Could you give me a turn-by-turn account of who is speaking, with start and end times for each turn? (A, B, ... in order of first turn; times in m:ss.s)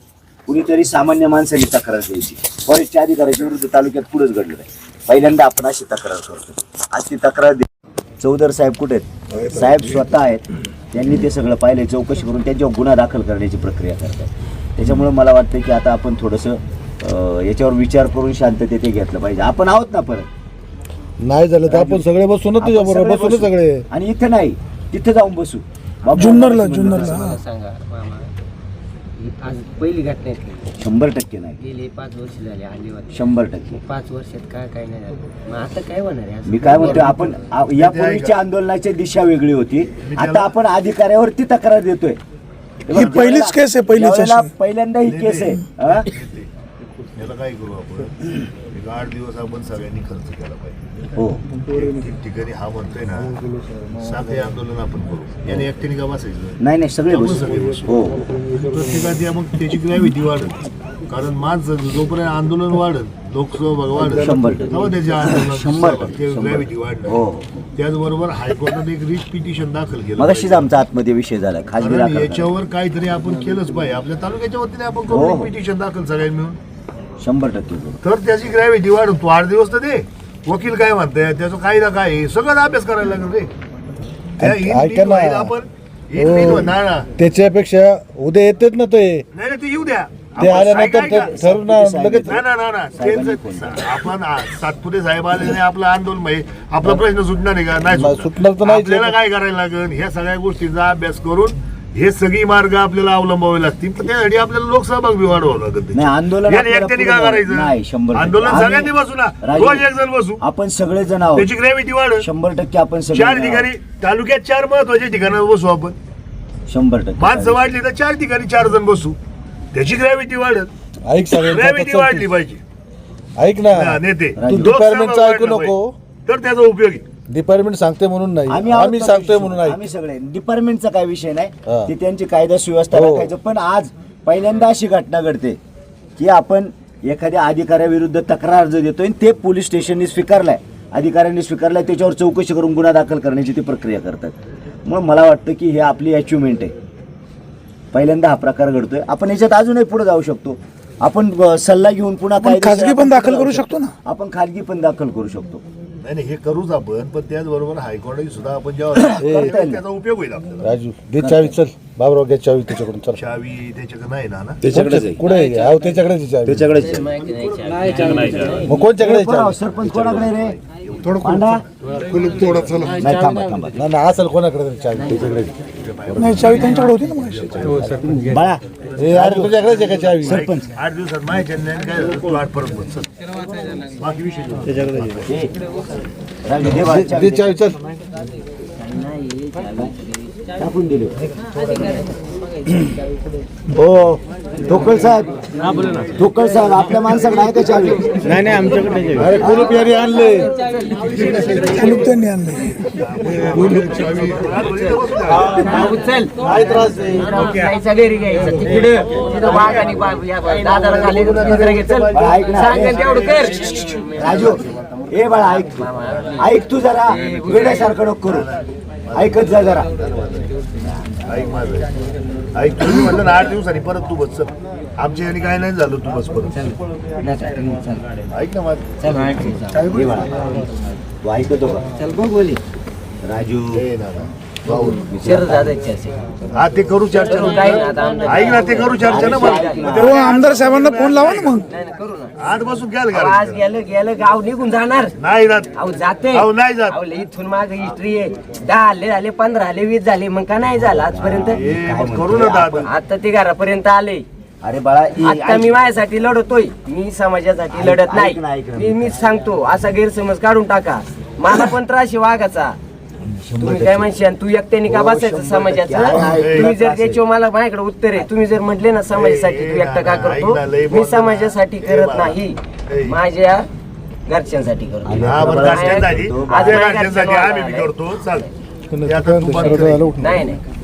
0:00.5-0:07.7 A
0:08.2-0:20.3 A
0:09.5-0:09.8 B
0:21.2-0:23.8 B
0:21.6-0:27.2 A
0:26.1-0:28.3 C
0:26.2-0:27.4 D
0:29.2-0:30.7 C
0:30.8-0:31.6 A
0:31.6-0:33.2 C
0:33.1-0:33.8 A
0:33.7-0:37.1 C
0:36.5-0:42.2 A
0:36.8-0:38.4 E
0:40.0-0:40.6 E
0:42.9-0:46.1 A
0:42.9-0:44.5 D
0:42.9-0:43.2 E
0:45.0-0:46.5 E
0:47.2-0:50.8 E
0:51.2-0:51.4 A
0:51.7-0:53.4 E
0:54.0-0:56.6 E
0:56.6-0:58.3 A
0:57.1-0:57.9 E
0:58.5-0:58.8 B
0:58.6-1:07.2 E
1:04.0-1:07.5 A
1:07.8-1:10.8 E
1:10.2-1:12.6 A
1:11.8-1:16.6 E
1:15.1-1:15.6 A
1:17.2-1:18.0 A
1:18.0-1:23.5 E
1:24.4-1:25.5 B
1:24.4-1:27.1 E
1:26.2-1:29.2 B
1:29.3-1:31.4 E
1:30.4-1:33.9 A
1:30.4-1:32.4 B
1:32.2-1:50.4 E
1:37.9-1:39.1 B
1:45.9-1:49.9 A
1:50.4-1:51.5 A
1:51.4-1:52.3 E
1:52.2-1:53.7 A
1:53.1-1:56.0 E
1:56.7-1:57.6 A
1:57.2-1:59.2 E
1:59.7-2:00.7 E
2:01.1-2:02.3 B
2:01.3-2:02.6 E
2:03.4-2:05.9 B
2:03.7-2:07.1 E
2:04.4-2:04.9 A
2:07.3-2:09.8 B
2:08.5-2:15.6 A
2:12.9-2:13.3 B
2:16.2-2:26.7 A
2:27.9-2:35.6 A
2:32.4-2:33.9 D
2:36.0-2:40.8 E
2:39.0-2:39.8 A
2:39.2-2:39.6 B
2:40.6-2:43.2 B
2:41.2-2:41.6 A
2:43.1-2:44.7 E
2:44.6-2:46.7 B
2:44.6-2:45.3 A
2:45.4-2:45.9 C
2:46.4-2:47.1 A
2:46.8-2:48.8 C
2:47.2-2:48.7 E
2:48.6-2:49.6 B
2:48.7-2:50.6 A
2:49.7-2:52.6 E
2:51.0-2:51.4 B
2:51.2-2:51.6 A
2:52.0-2:53.0 B
2:52.8-2:53.9 A
2:53.8-2:55.5 B
2:55.0-2:55.4 C
2:55.7-2:57.9 E
2:56.1-2:57.5 D
2:57.8-2:58.2 B
2:57.9-3:00.7 A
2:58.9-3:03.1 E
2:59.0-3:00.5 B
3:03.9-3:05.3 E
3:05.2-3:05.5 A
3:06.4-3:07.7 A
3:06.6-3:07.8 B
3:08.7-3:10.3 C
3:10.6-3:11.2 A
3:13.7-3:15.4 A
3:16.2-3:18.5 A
3:18.1-3:21.9 C
3:18.2-3:20.5 B
3:19.2-3:19.8 A
3:21.1-3:21.6 E
3:21.2-3:21.7 B
3:21.6-3:23.1 D
3:23.0-3:25.5 E
3:23.4-3:24.4 B
3:24.6-3:34.6 C
3:25.2-3:25.9 B
3:26.4-3:27.7 B
3:28.6-3:29.2 B
3:29.3-3:30.1 A
3:30.6-3:33.8 E
3:32.1-3:33.3 A
3:34.0-3:38.5 A
3:35.4-3:38.0 C
3:38.2-3:40.5 E
3:39.1-3:39.9 A
3:40.8-3:41.2 A
3:41.3-3:41.9 E
3:42.6-3:46.5 E
3:46.5-3:46.8 C
3:47.2-3:48.0 A
3:48.3-3:48.9 E
3:49.0-3:50.0 C
3:49.7-3:50.4 A
3:51.2-3:51.8 A
3:52.0-3:52.6 C
3:53.2-3:53.8 A
3:53.7-3:55.0 E
3:54.6-3:55.8 A
3:55.2-3:56.3 C
3:56.5-4:01.6 E
3:57.2-4:00.1 C
3:58.6-4:00.2 A
3:59.9-4:01.6 D
4:01.7-4:02.3 C
4:02.4-4:03.6 E
4:03.1-4:05.2 C
4:05.2-4:05.7 E
4:05.8-4:11.6 C
4:06.3-4:07.0 E
4:10.7-4:12.9 A
4:11.5-4:12.9 E
4:12.9-4:14.3 C
4:14.6-4:15.8 A
4:15.2-4:22.8 C
4:17.7-4:19.2 A
4:23.2-4:24.1 A
4:23.6-4:33.7 C
4:24.9-4:27.2 A
4:26.1-4:26.7 E
4:29.1-4:33.2 E
4:34.3-4:38.5 C
4:35.0-4:37.0 A
4:35.2-4:38.5 E
4:39.0-4:40.3 B
4:39.0-4:40.2 E
4:40.2-4:40.6 C